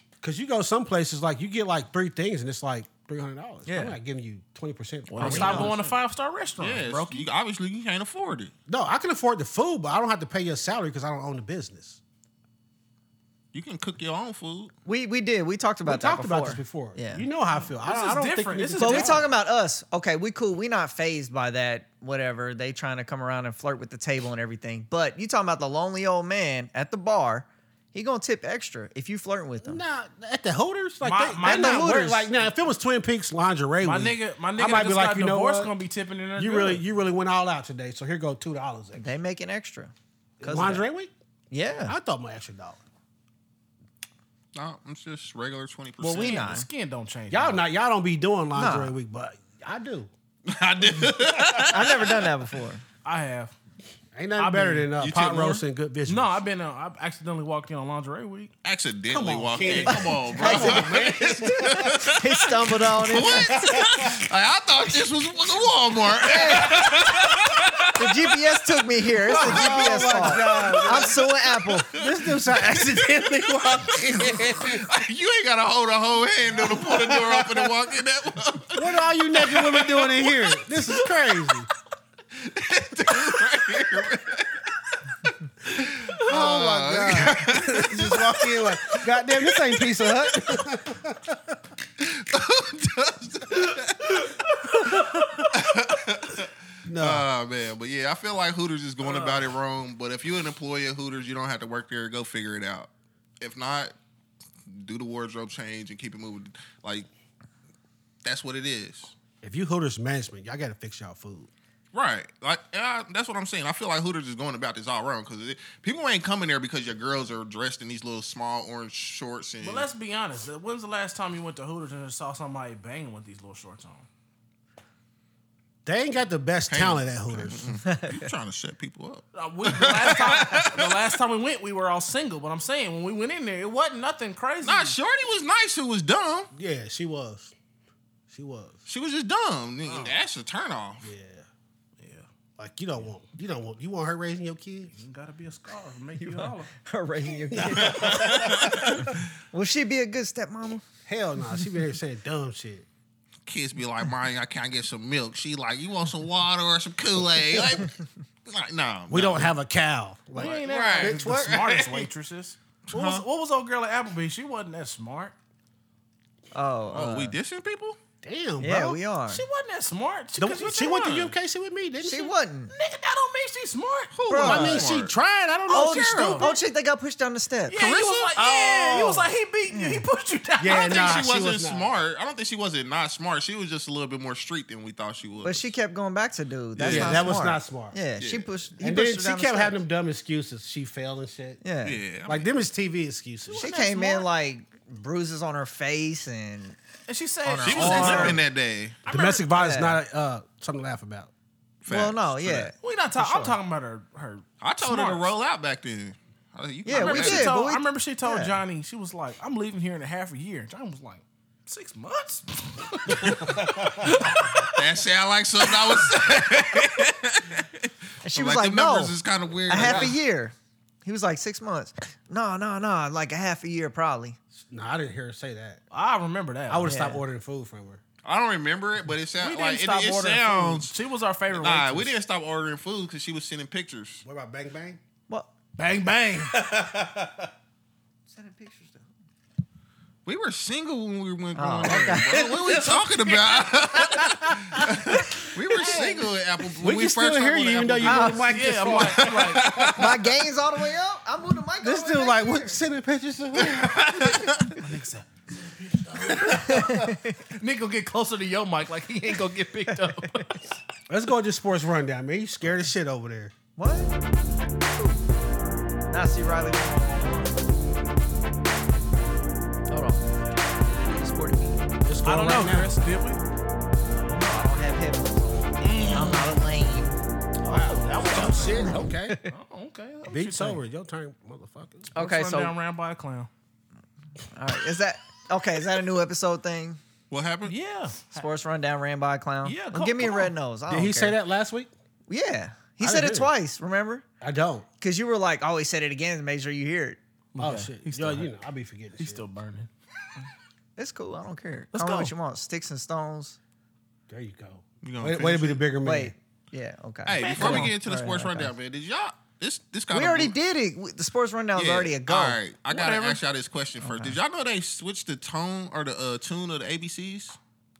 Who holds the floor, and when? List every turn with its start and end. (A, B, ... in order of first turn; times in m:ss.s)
0:00.2-0:05.8 A
0:03.6-0:04.0 B
0:05.1-0:07.2 C
0:05.2-0:05.8 D
0:05.3-0:05.6 B
0:06.6-0:08.5 D
0:08.7-0:12.0 A
0:13.5-0:14.7 D
0:14.8-0:17.2 B
0:15.8-0:19.3 A
0:17.8-0:19.3 C
0:18.8-0:29.8 B
0:29.6-0:35.7 A
0:31.0-0:32.2 C
0:31.4-0:32.2 B
0:33.8-0:36.8 C
0:36.4-0:39.0 A
0:38.9-0:40.8 B
0:40.4-0:41.1 A
0:41.5-0:42.0 B
0:41.9-0:42.8 A
0:44.5-0:46.6 D
0:46.0-0:46.6 B
0:46.0-0:47.6 C
0:47.3-0:50.1 A
0:48.5-0:48.9 B
0:50.5-0:52.1 D
0:51.4-0:51.7 A
0:51.7-0:52.8 B
0:53.0-0:53.5 C
0:54.1-0:56.4 A
0:54.4-0:54.9 C
0:55.0-0:55.6 D
0:56.1-0:58.5 C
0:58.6-1:08.3 D
0:59.1-1:02.0 A
0:59.8-1:03.8 B
1:03.3-1:04.2 A
1:06.2-1:07.0 B
1:08.0-1:12.4 B
1:09.2-1:21.0 D
1:09.3-1:11.3 A
1:11.9-1:14.8 A
1:16.5-1:17.7 A
1:18.7-1:21.7 A
1:22.4-1:24.6 D
1:25.2-1:30.1 D
1:26.2-1:31.5 A
1:32.0-1:34.3 D
1:34.8-1:35.4 C
1:35.5-1:42.9 D
1:36.8-1:37.2 A
1:39.0-1:39.5 C
1:43.4-1:43.9 D
1:44.7-1:47.1 D
1:48.2-1:49.1 D
1:49.4-1:51.5 A
1:51.9-1:59.9 D
1:59.6-2:04.0 C
2:05.8-2:07.7 A
2:06.7-2:11.0 D
2:07.8-2:08.3 B
2:09.3-2:15.0 C
2:14.6-2:16.5 D
2:16.5-2:17.5 A
2:18.3-2:18.8 A
2:18.8-2:21.1 D
2:19.9-2:20.1 C
2:21.0-2:21.4 A
2:22.0-2:22.3 C
2:22.6-2:24.9 A
2:24.9-2:26.7 C
2:26.2-2:30.8 B
2:27.5-2:29.1 A
2:27.8-2:29.0 D
2:31.1-2:32.8 A
2:33.4-2:38.0 D
2:38.5-2:39.5 D
2:39.1-2:41.6 A
2:40.3-2:45.3 C
2:40.4-2:42.1 D
2:42.9-2:43.2 D
2:46.5-2:47.4 B
2:46.9-2:48.0 D
2:48.2-2:49.0 A
2:48.6-2:49.4 B
2:49.3-2:51.3 C
2:50.4-2:52.3 A
2:52.0-2:52.7 B
2:52.7-2:54.1 C
2:54.1-2:55.1 D
2:54.3-2:54.9 B
2:54.4-2:56.5 A
2:55.7-2:57.8 B
2:55.9-2:56.5 D
2:56.0-2:56.5 C
2:57.7-3:01.2 C
2:57.7-2:58.4 D
2:58.4-3:00.0 B
3:00.6-3:01.9 A
3:00.6-3:05.7 D
3:05.4-3:09.8 B
3:06.8-3:07.3 D
3:06.8-3:08.0 A
3:08.2-3:08.5 D
3:08.8-3:11.6 A
3:11.6-3:12.0 B
3:11.8-3:12.5 D
3:12.2-3:13.7 A
3:13.5-3:14.3 C
3:13.6-3:16.8 B
3:17.1-3:18.4 C
3:17.4-3:18.4 B
3:17.6-3:19.0 D
3:19.0-3:19.5 C
3:19.0-3:21.3 A
3:19.5-3:20.0 B
3:21.8-3:22.7 D
3:21.9-3:23.6 B
3:22.8-3:25.3 C
3:24.6-3:27.5 D
3:26.8-3:28.6 B
3:26.9-3:34.8 C
3:33.2-3:33.5 D
3:33.8-3:34.1 A
3:34.6-3:40.2 D
3:35.6-3:37.0 C
3:38.2-3:39.1 B
3:39.7-3:44.4 B
3:39.8-3:40.1 A
3:44.5-3:45.8 A
3:45.9-3:47.0 C
3:46.7-3:48.0 A
3:46.8-3:47.2 B
3:48.2-3:51.0 D
3:49.4-3:52.1 C
3:51.5-3:54.2 D
3:54.2-3:55.0 A
3:55.8-3:56.7 C
3:56.3-3:57.5 A
3:58.3-3:59.1 B
4:00.2-4:10.1 D
4:01.6-4:02.6 B
4:02.2-4:06.2 A
4:06.8-4:10.0 A
4:08.0-4:08.5 B
4:08.5-4:09.8 C
4:09.9-4:12.8 B
4:11.8-4:14.4 A
4:13.6-4:14.8 D
4:14.7-4:20.6 C
4:16.1-4:16.8 A
4:16.6-4:17.4 B
4:21.1-4:23.5 A
4:23.8-4:24.1 B
4:24.9-4:25.2 B
4:26.1-4:27.6 B
4:29.9-4:31.8 B
4:32.0-4:32.9 A
4:32.2-4:33.4 C
4:34.1-4:37.2 B
4:35.8-4:36.6 C
4:37.6-4:40.8 C
4:37.6-4:39.4 A
4:38.7-4:39.5 B
4:40.3-4:42.1 A
4:42.1-4:42.7 B
4:42.1-4:43.5 C
4:44.5-4:47.0 B
4:47.3-4:47.8 D
4:47.6-4:48.5 C
4:48.3-4:51.4 B
4:49.6-4:50.5 C
4:50.9-4:51.9 A
4:52.3-4:54.2 B
4:53.0-4:53.5 A
4:54.4-4:54.9 A
4:55.0-4:57.2 B
4:57.5-4:58.5 C
4:57.6-4:59.4 A
4:59.2-4:59.9 C
5:01.0-5:03.6 B
5:01.9-5:02.3 C
5:04.3-5:06.3 A
5:05.0-5:05.8 D
5:06.0-5:08.7 B
5:07.3-5:10.5 D
5:07.3-5:07.9 C
5:10.1-5:12.6 B
5:11.7-5:17.6 D
5:12.9-5:13.4 C
5:14.0-5:14.3 B